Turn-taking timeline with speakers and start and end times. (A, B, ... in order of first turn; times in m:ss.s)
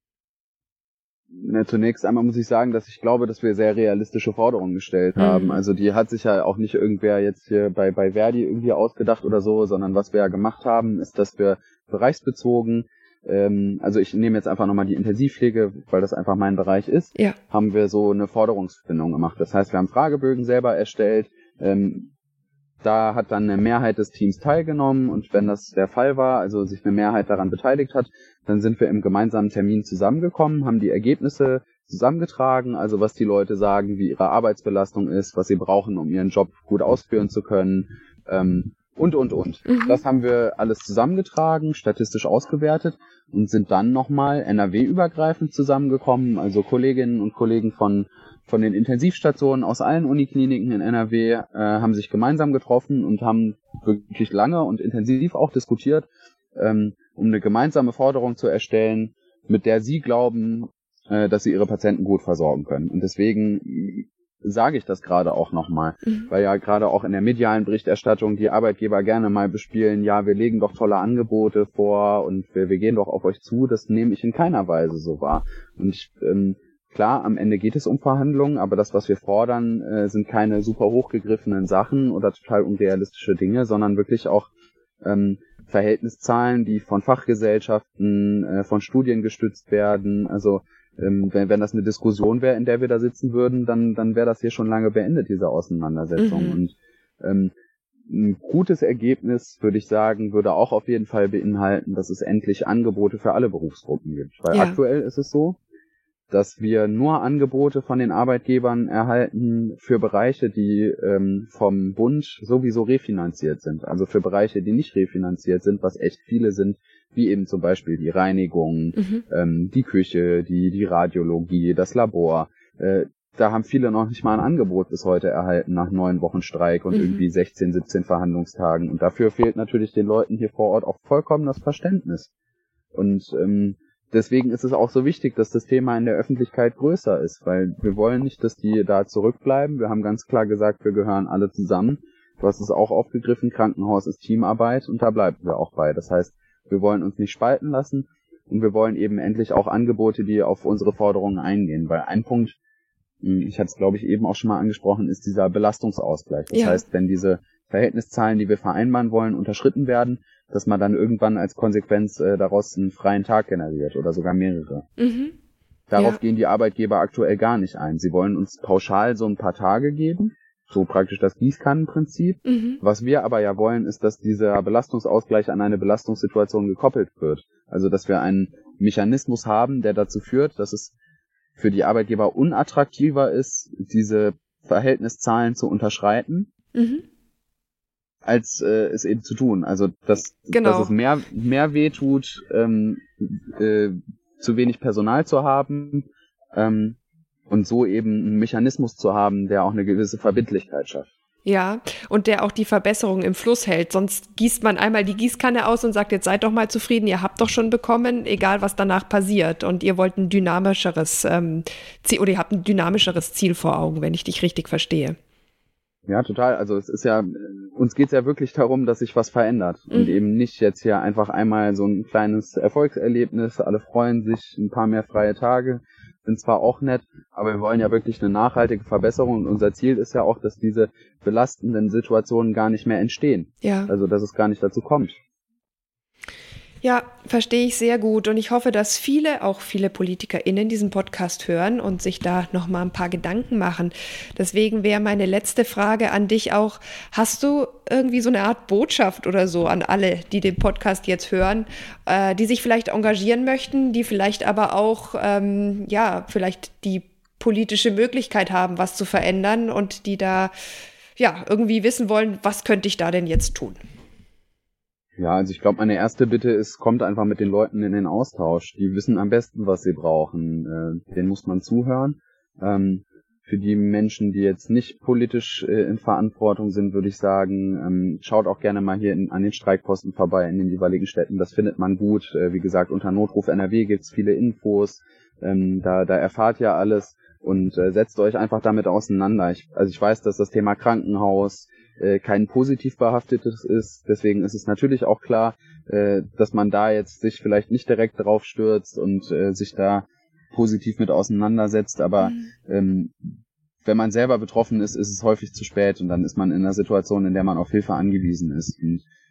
0:01.3-0:22.1 A
0:05.2-0:05.6 B
0:22.8-1:24.5 A
0:39.7-0:40.0 B
1:25.0-1:37.5 A
1:36.2-1:36.6 B
1:38.1-1:45.6 A
1:44.5-1:44.8 B
1:46.3-2:12.3 A
1:59.0-1:59.2 B
2:06.9-2:07.2 B
2:12.9-2:32.6 A
2:33.2-2:44.9 A
2:36.5-2:36.8 B
2:45.0-2:45.3 B
2:45.9-3:00.9 A
2:46.0-2:46.2 B
2:52.4-2:52.8 B
3:01.6-3:06.5 A
3:06.7-3:07.0 B
3:08.2-3:17.0 A
3:10.5-3:10.9 B
3:17.5-3:21.1 A
3:21.4-3:35.2 B
3:36.0-3:55.2 A
3:39.9-3:40.2 B
3:53.6-3:53.9 B
3:56.8-4:20.5 B
4:21.2-4:23.8 B
4:25.2-5:09.0 A